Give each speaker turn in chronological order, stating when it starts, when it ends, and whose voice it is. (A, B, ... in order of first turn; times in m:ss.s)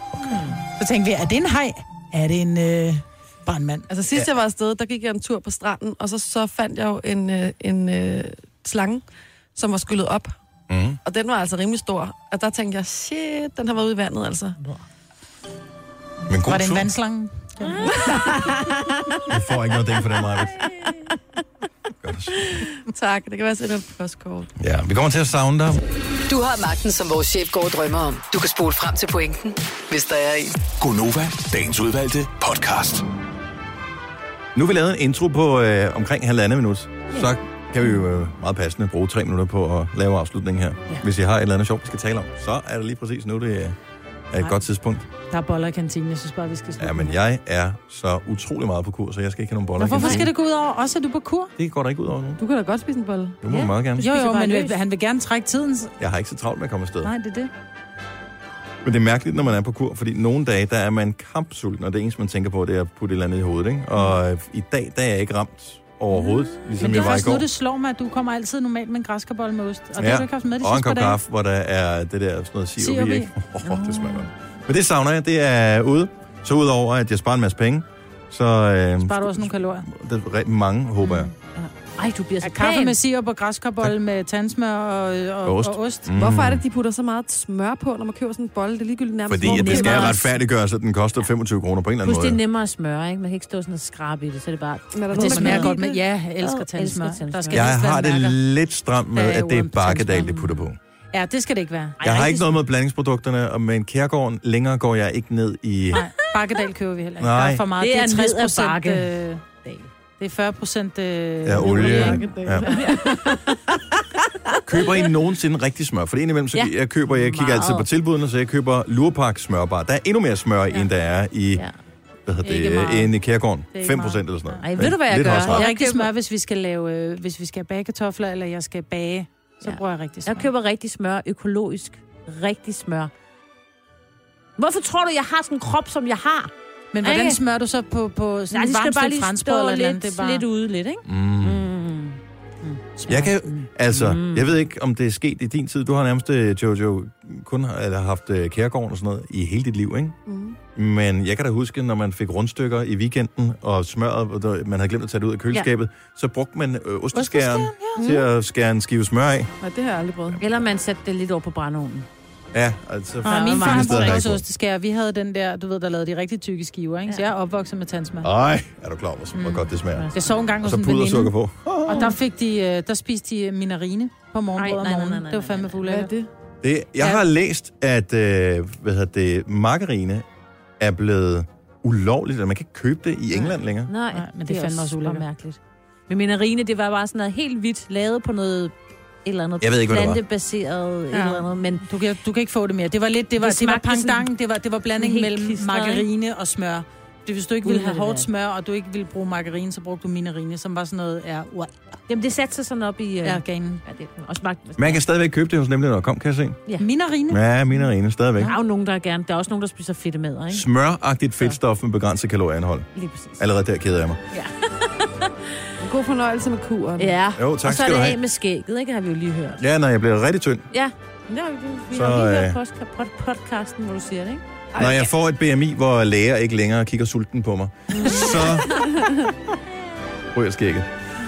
0:00.3-0:03.9 A
0:03.9-0:09.0 B
0:09.5-0:10.3 B
0:10.7-0:11.0 C
0:11.0-0:14.6 B
0:16.3-0:16.9 C
0:16.4-0:18.6 A
0:17.7-0:18.1 D
0:19.3-0:20.6 C
0:20.5-0:20.9 D
0:22.0-0:22.5 C
0:22.6-0:24.5 B
0:24.6-0:25.8 C
0:26.3-0:30.6 E
0:30.7-0:33.0 F
0:34.5-0:43.8 C
0:44.3-0:45.0 C
0:45.2-0:47.2 A
0:46.8-0:50.3 C
0:49.8-0:51.5 A
0:51.6-0:52.4 C
0:52.4-0:53.4 B
0:53.4-0:54.0 C
0:53.5-0:54.8 D
0:54.0-0:55.9 A
0:56.0-0:57.1 C
0:57.0-0:57.5 A
0:58.8-1:07.5 C
1:06.1-1:06.5 D
1:06.8-1:11.2 A
1:10.0-1:21.3 C
1:12.8-1:13.3 A
1:13.6-1:14.3 D
1:19.0-1:19.9 A
1:21.0-1:23.0 D
1:22.4-1:26.1 A
1:25.4-1:26.6 C
1:26.1-1:30.1 B
1:29.3-1:32.4 C
1:29.4-1:30.3 D
1:29.4-1:30.2 A
1:32.0-1:37.6 D
1:34.9-1:35.8 B
1:35.1-1:38.4 A
1:37.5-1:40.8 C
1:39.1-1:40.3 A
1:40.2-1:40.6 D
1:41.1-1:42.0 A
1:42.0-1:42.6 D
1:42.0-1:46.1 C
1:45.9-1:52.4 A
1:47.2-1:47.6 C
1:47.8-1:49.1 D
1:51.4-1:52.6 C
1:51.7-1:53.4 B
1:52.6-1:53.4 D
1:54.6-2:01.6 C
1:56.5-1:57.9 D
2:02.2-2:05.6 C
2:02.4-2:03.1 A
2:03.7-2:10.5 A
2:04.6-2:06.1 D
2:09.6-2:13.1 D
2:14.6-2:16.5 D
2:16.9-2:20.4 A
2:17.0-2:17.4 D
2:18.5-2:22.2 D
2:21.0-2:21.6 C
2:22.6-2:23.7 A
2:23.1-2:30.2 C
2:23.9-2:24.5 D
2:30.3-2:30.6 B
2:30.7-2:39.5 C
2:37.1-2:38.1 A
2:38.0-2:38.2 B
2:39.6-2:40.4 B
2:40.4-2:42.1 D
2:42.5-2:44.4 C
2:43.2-2:48.3 A
2:43.2-2:44.2 D
2:48.2-2:50.1 C
2:49.4-2:50.3 D
2:50.1-2:51.3 A
2:50.6-2:52.2 C
2:51.8-2:56.1 A
2:54.5-2:56.0 D
2:55.8-2:56.3 B
2:56.6-3:00.2 C
3:00.8-3:03.9 C
3:03.3-3:11.8 D
3:04.1-3:05.2 A
3:09.6-3:10.2 C
3:11.1-3:21.7 A
3:13.4-3:14.3 D
3:15.0-3:16.0 D
3:17.6-3:18.3 D
3:22.1-3:25.0 D
3:23.2-3:23.8 A
3:24.8-3:26.6 C
3:26.8-3:27.4 A
3:27.3-3:28.5 C
3:28.4-3:30.6 D
3:30.5-3:34.2 C
3:32.9-3:33.4 D
3:34.3-3:35.5 D
3:35.8-3:37.1 B
3:37.0-3:39.6 D
3:37.4-3:38.2 C
3:39.6-3:40.6 C
3:40.7-3:44.4 D
3:41.9-3:42.6 C
3:44.7-3:45.1 B
3:44.8-3:48.8 C
3:47.9-3:49.1 B
3:48.1-3:48.5 D
3:50.3-3:50.9 C